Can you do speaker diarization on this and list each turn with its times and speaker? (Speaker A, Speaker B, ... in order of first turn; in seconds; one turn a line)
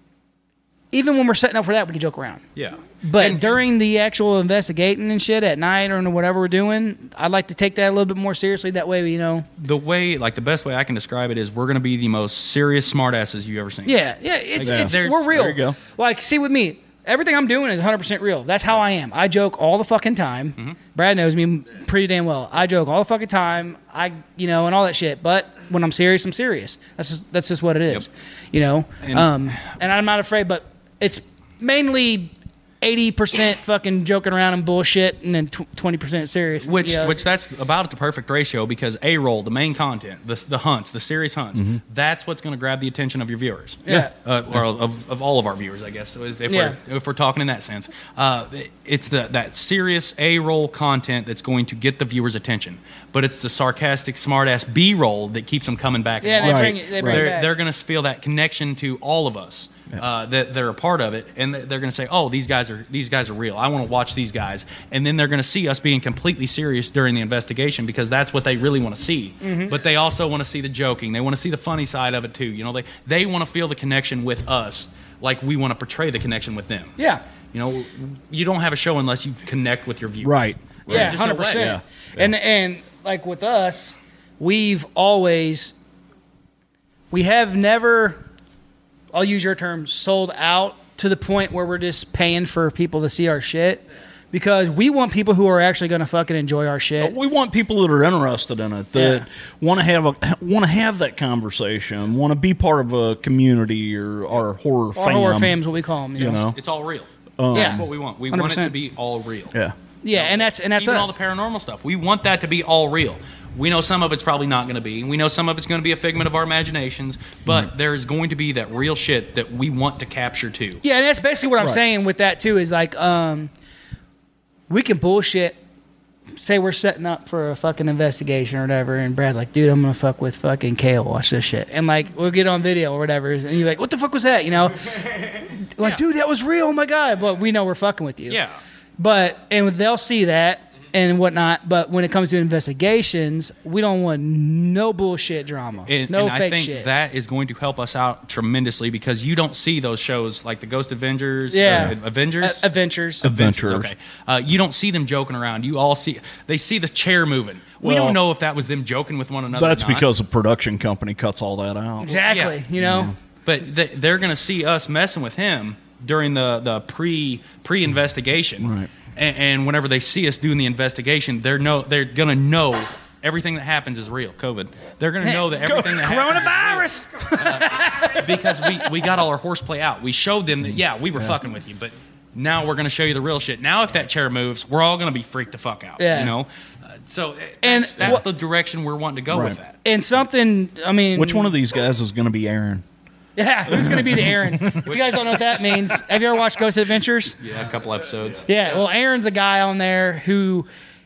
Speaker A: 0.9-2.4
Speaker B: 2.6-3.6
Speaker A: 3.0-9.4
Speaker B: 9.6-14.0
Speaker A: 13.9-37.2
Speaker B: 14.6-15.4
Speaker C: 14.6-15.8
Speaker B: 29.0-29.5
Speaker B: 36.6-76.9
Speaker C: 41.5-41.8
Speaker A: 43.9-44.1
Speaker A: 46.5-46.8
Speaker A: 56.2-57.5
Speaker C: 56.4-57.3
Speaker A: 69.4-69.8
Speaker B: 77.5-81.7
Speaker C: 80.2-82.3
Speaker A: 80.9-85.7
Speaker A: 87.1-88.2
Speaker A: 89.1-97.2
Speaker C: 97.0-105.6
Speaker A: 98.9-99.2
Speaker A: 105.0-106.4
Speaker C: 106.2-106.6
Speaker B: 106.2-109.5
Speaker C: 107.4-107.8
Speaker A: 107.5-108.7
Speaker A: 110.0-111.1
Speaker B: 110.1-120.8
Speaker A: 120.8-123.5
Speaker A: 124.7-125.6
Speaker A: 126.4-138.4
Speaker B: 138.3-138.6
Speaker A: 139.0-146.9
Speaker B: 145.9-152.7
Speaker A: 151.5-153.3
Speaker C: 151.7-151.9
Speaker B: 153.2-160.1
Speaker C: 153.2-153.9
Speaker C: 157.8-158.2
Speaker C: 159.5-162.2
Speaker A: 162.0-163.1
Speaker B: 162.3-162.6
Speaker C: 162.8-163.1
Speaker B: 163.4-189.8
Speaker C: 168.6-168.9
Speaker A: 175.2-178.9
Speaker C: 180.6-181.4
Speaker A: 186.0-186.3
Speaker A: 187.6-188.2
Speaker C: 189.3-189.6
Speaker A: 189.8-191.5
Speaker C: 191.1-192.8
Speaker A: 193.4-197.4
Speaker C: 193.7-194.9
Speaker B: 194.9-195.4
Speaker B: 197.4-198.5
Speaker A: 198.5-200.7